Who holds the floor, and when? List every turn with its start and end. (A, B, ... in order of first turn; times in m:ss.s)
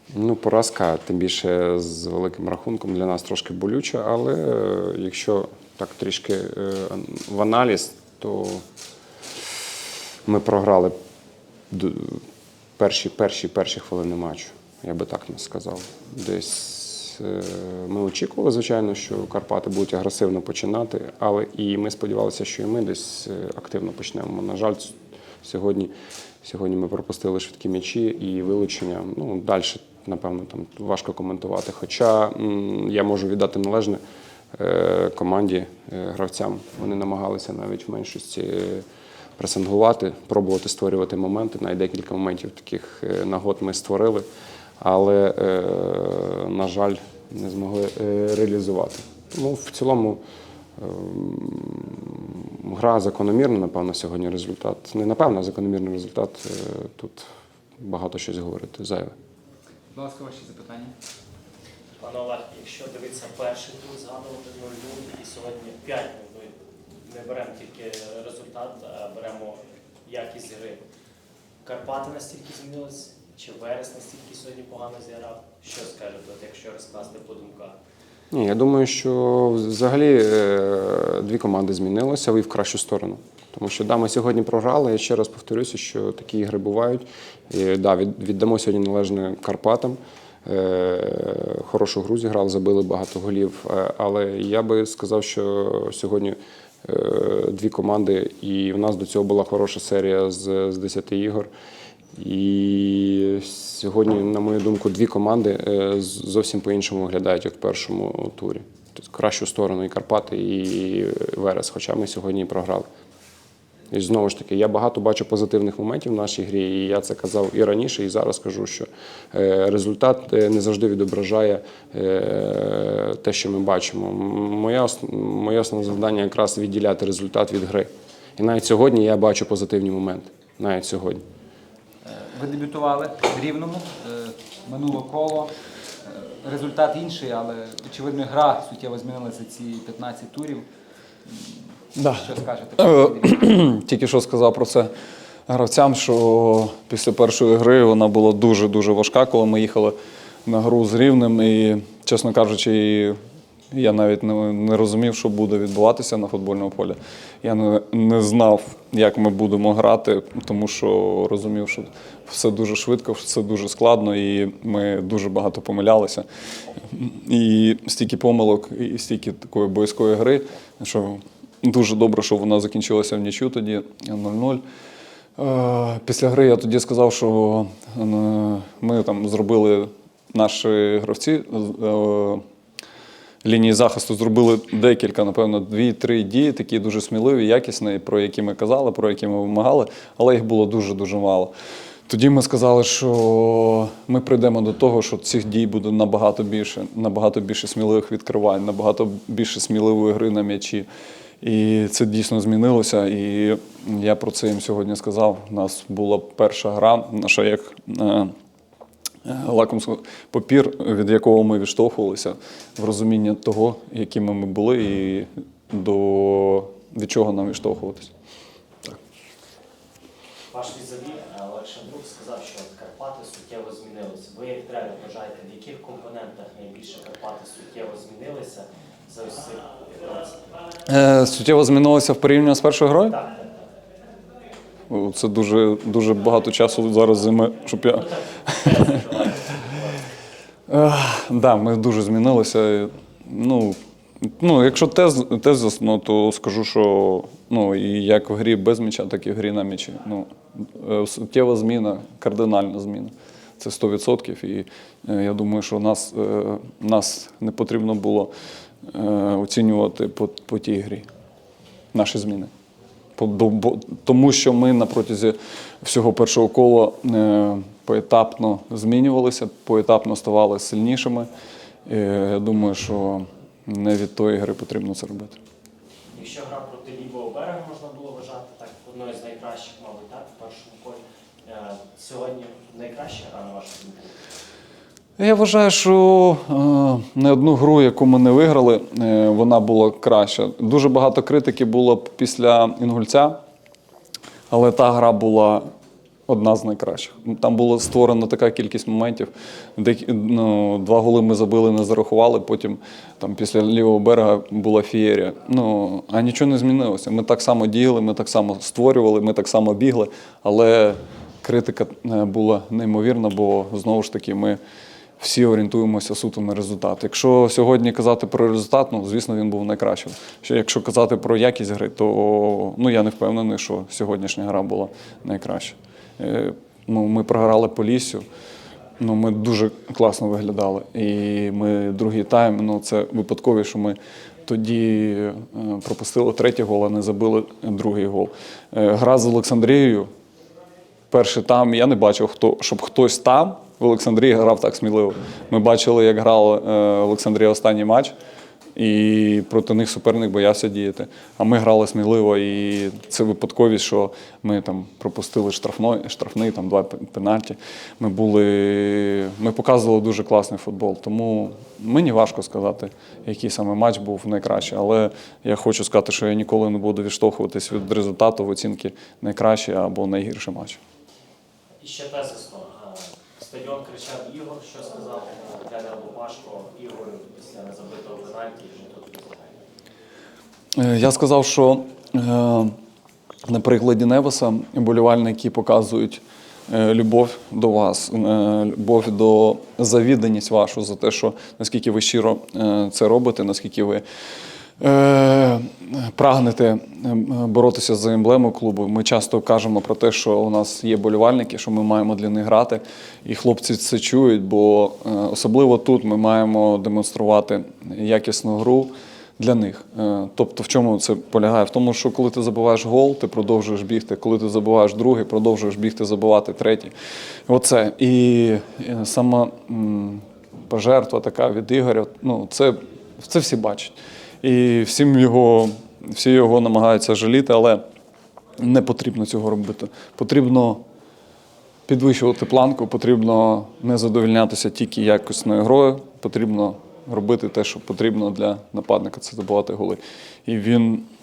0:00.1-0:08.6 A
0:10.2-0:10.9 A
0:11.7-0:12.2 A
0:12.8-0:25.9 A
0:26.4-0:34.0 A
0:34.5-0:38.8 A
0:39.4-0:44.2 A
0:44.8-0:50.2 A
0:50.8-0:57.3 A
0:57.8-0:59.1 A
0:59.9-1:00.9 B
1:02.0-1:10.8 C
1:11.6-1:17.8 C
1:18.3-1:41.5 A
1:42.2-1:52.9 A
1:53.9-2:11.2 A
2:12.0-2:20.7 B
2:21.3-2:21.5 B
2:21.9-2:24.9 D
2:22.1-2:23.2 B
2:25.5-2:29.9 D
2:30.4-2:33.2 D
2:33.7-2:46.2 D
2:46.9-2:54.6 D
2:55.4-3:02.4 D
3:03.4-3:11.5 D
3:12.1-3:20.9 D
3:21.4-3:28.3 D
3:29.2-3:38.1 D
3:40.5-3:50.4 C
3:50.8-3:53.2 D
3:54.9-3:58.1 D
3:57.9-4:00.0 C
4:00.7-4:18.3 D
4:18.9-4:21.0 D
4:21.9-4:22.5 D
4:23.2-4:31.3 D
4:31.9-4:35.4 D
4:36.1-4:44.1 C
4:45.2-4:53.4 D
4:54.5-4:55.7 D
4:56.3-5:14.6 D
5:15.2-5:28.2 D
5:29.0-5:40.1 D
5:41.1-5:48.1 D
5:48.7-6:10.8 D
6:11.8-6:19.6 C
6:20.8-6:22.7 D
6:23.5-6:34.0 D
6:34.8-6:56.9 D
6:57.5-7:07.8 D
7:08.6-7:10.8 D
7:11.9-7:21.0 D